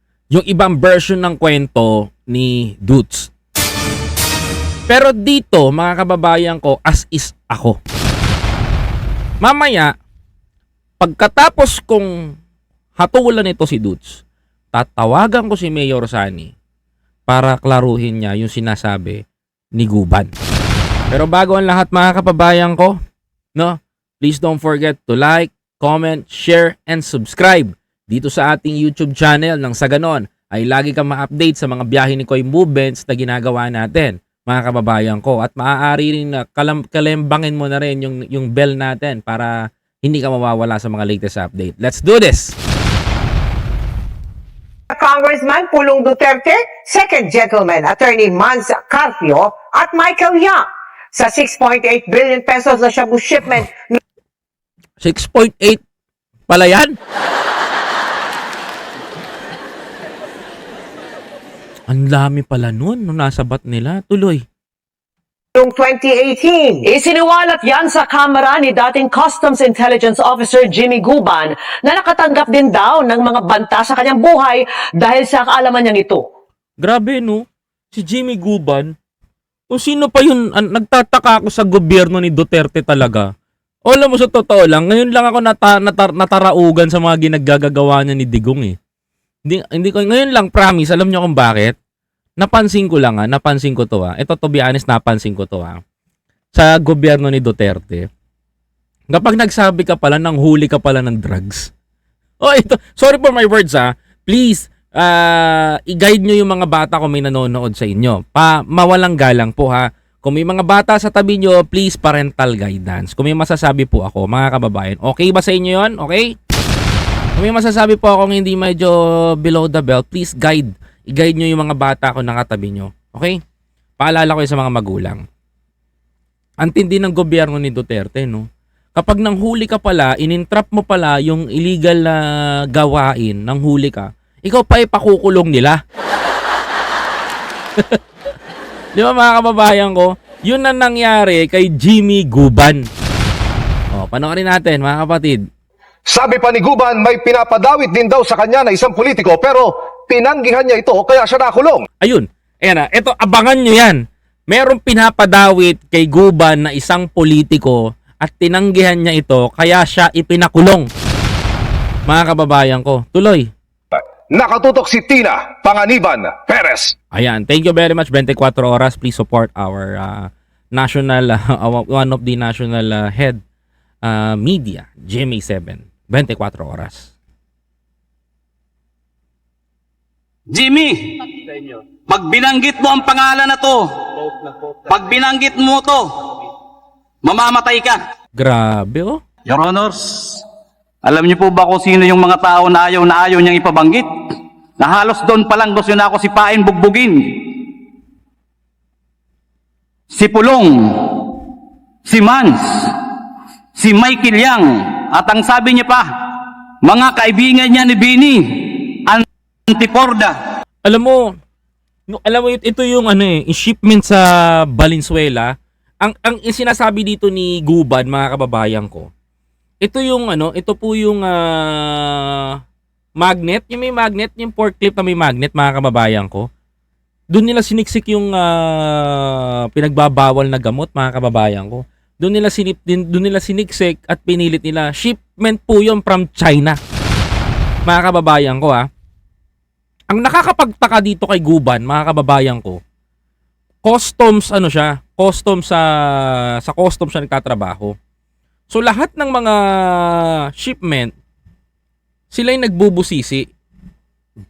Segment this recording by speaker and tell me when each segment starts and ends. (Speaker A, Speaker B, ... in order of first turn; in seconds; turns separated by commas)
Speaker A: 0.3-3.3, Speaker A: 4.9-7.8, Speaker A: 9.4-9.9, Speaker A: 11.0-12.1, Speaker A: 13.0-14.2, Speaker A: 14.7-16.5, Speaker A: 17.3-19.2, Speaker A: 19.8-20.3, Speaker A: 21.1-23.0, Speaker A: 23.6-42.5, Speaker B: 44.9-54.0, Speaker A: 55.0-55.8, Speaker A: 56.5-57.0, Speaker A: 61.9-64.4, Speaker B: 65.5-66.8, Speaker C: 66.9-76.2, Speaker A: 76.8-78.9, Speaker A: 79.7-83.3, Speaker A: 83.9-88.8, Speaker A: 89.5-91.8, Speaker A: 92.4-95.8, Speaker A: 96.5-98.1, Speaker A: 99.1-101.7, Speaker A: 102.4-116.3, Speaker A: 117.4-123.4, Speaker A: 124.0-125.2, Speaker A: 126.6-132.2, Speaker A: 132.7-135.8, Speaker A: 138.9-142.9, Speaker A: 143.9-145.4, Speaker D: 146.1-151.9, Speaker A: 152.0-154.0, Speaker A: 154.5-160.9, Speaker A: 162.1-163.5, Speaker D: 163.9-166.9, Speaker A: 167.1-173.4, Speaker A: 174.0-177.1, Speaker E: 180.5-186.3, Speaker E: 187.2-188.0, Speaker A: 188.4-189.2, Speaker E: 189.5-190.4, Speaker E: 191.0-194.1, Speaker E: 194.8-197.6, Speaker E: 200.1-201.2, Speaker E: 202.1-203.0, Speaker E: 203.8-206.1, Speaker E: 206.8-210.4, Speaker A: 210.8-211.3, Speaker A: 212.1-219.1, Speaker A: 219.8-222.5, Speaker A: 223.2-226.5, Speaker A: 227.3-236.8, Speaker A: 237.9-238.9, Speaker A: 240.1-242.8, Speaker A: 243.8-245.9, Speaker A: 246.7-247.9, Speaker A: 248.7-251.1, Speaker A: 252.3-253.5